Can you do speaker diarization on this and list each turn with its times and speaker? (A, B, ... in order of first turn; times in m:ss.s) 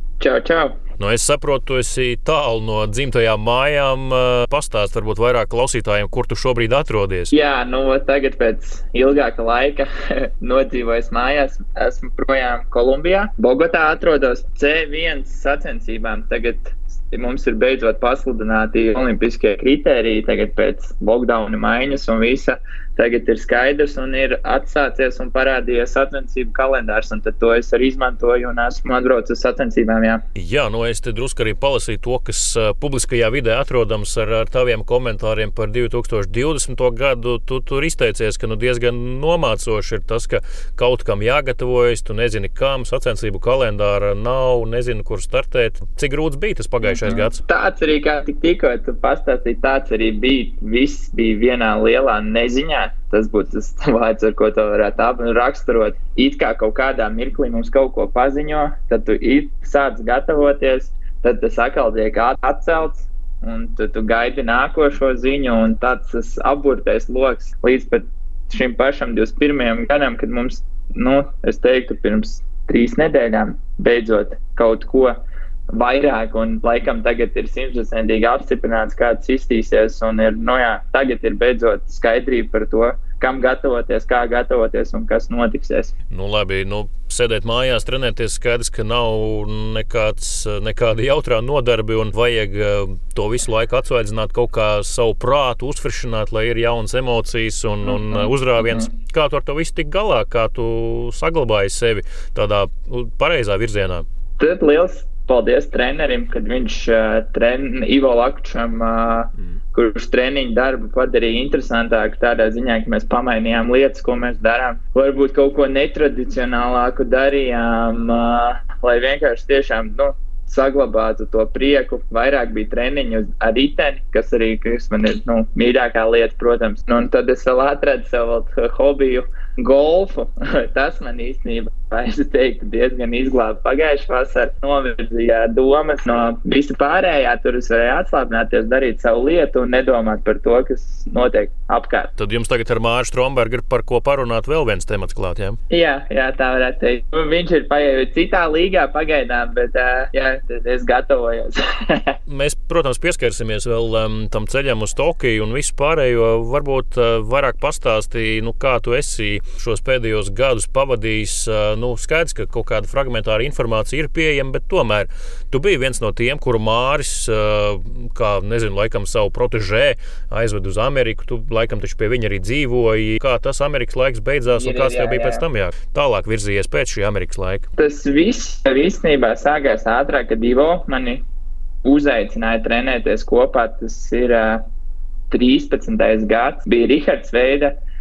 0:00.2-0:00.8 A
0:01.0-0:07.3 B
0:07.3-0:30.2 A
0:30.4-0:47.4 B
0:46.8-1:15.2 A
1:15.7-1:25.9 A
1:26.1-1:44.0 B
1:37.8-1:38.9 A
1:44.4-2:22.1 A
2:22.2-2:25.6 B
2:25.7-2:32.2 A
2:32.3-2:57.7 B
2:54.5-2:55.4 A
2:57.8-3:01.2 A
3:01.8-3:04.6 A
3:05.3-3:07.7 A